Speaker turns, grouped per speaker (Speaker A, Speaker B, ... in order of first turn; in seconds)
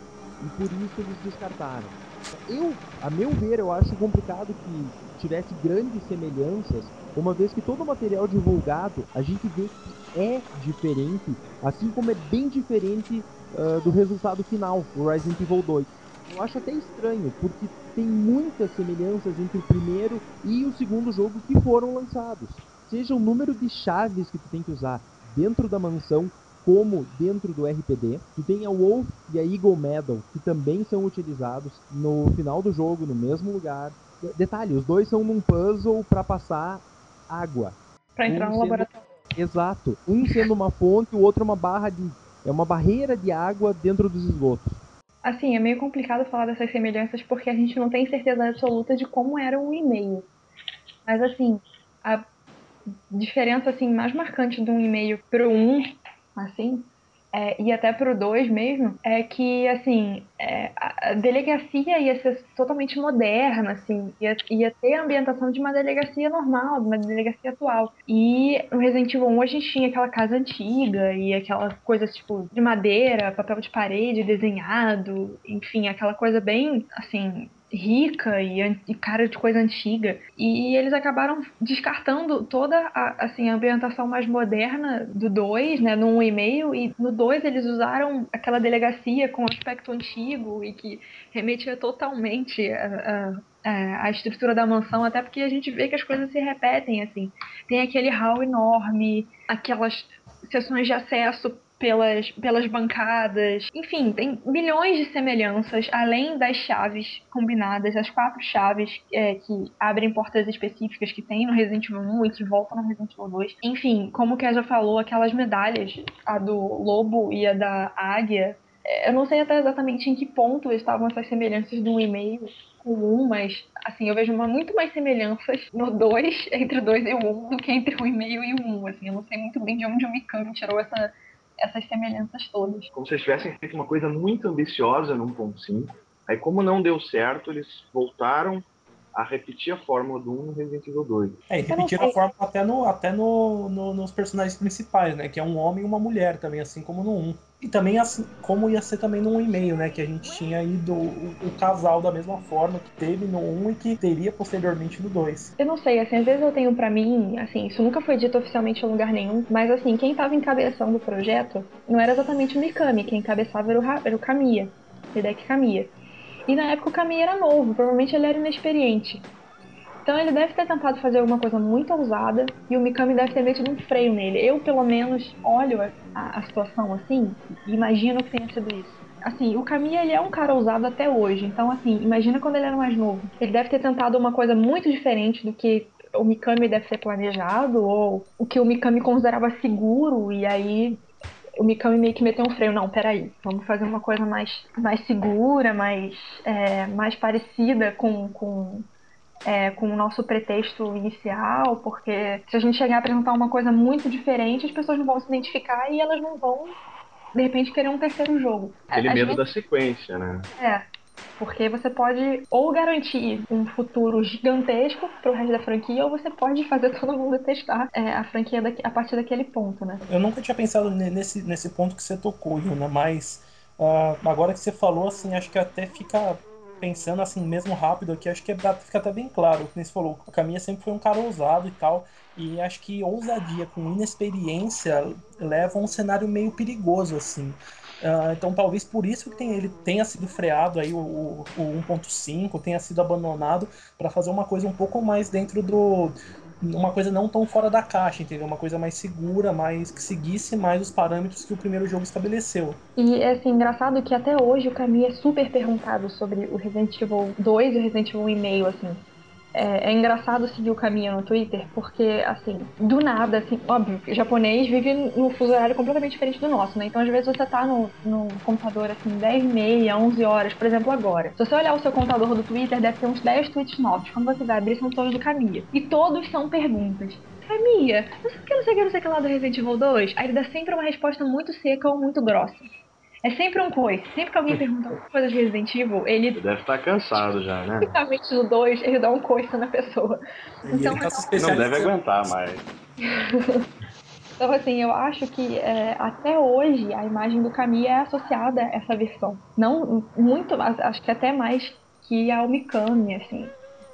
Speaker A: 0.4-44.8
Speaker B: 38.2-39.0, 45.2-50.3, 51.1-52.3, 53.1-132.9, 141.7-142.2, 149.4-150.6, 155.6-165.9, 166.5-169.3, 170.1-191.0, 191.6-198.9, 199.5-206.8, 207.3-209.4, 210.6-210.8, 211.4-220.0, 253.0-282.7, 283.2-286.4, 287.9-290.2, 290.7-291.7, 293.0-293.6, 294.4-303.5
Speaker C: 132.9-141.4, 208.9-210.5, 286.3-287.9, 291.4-292.6
Speaker D: 141.5-155.5, 220.1-252.8, 290.6-291.9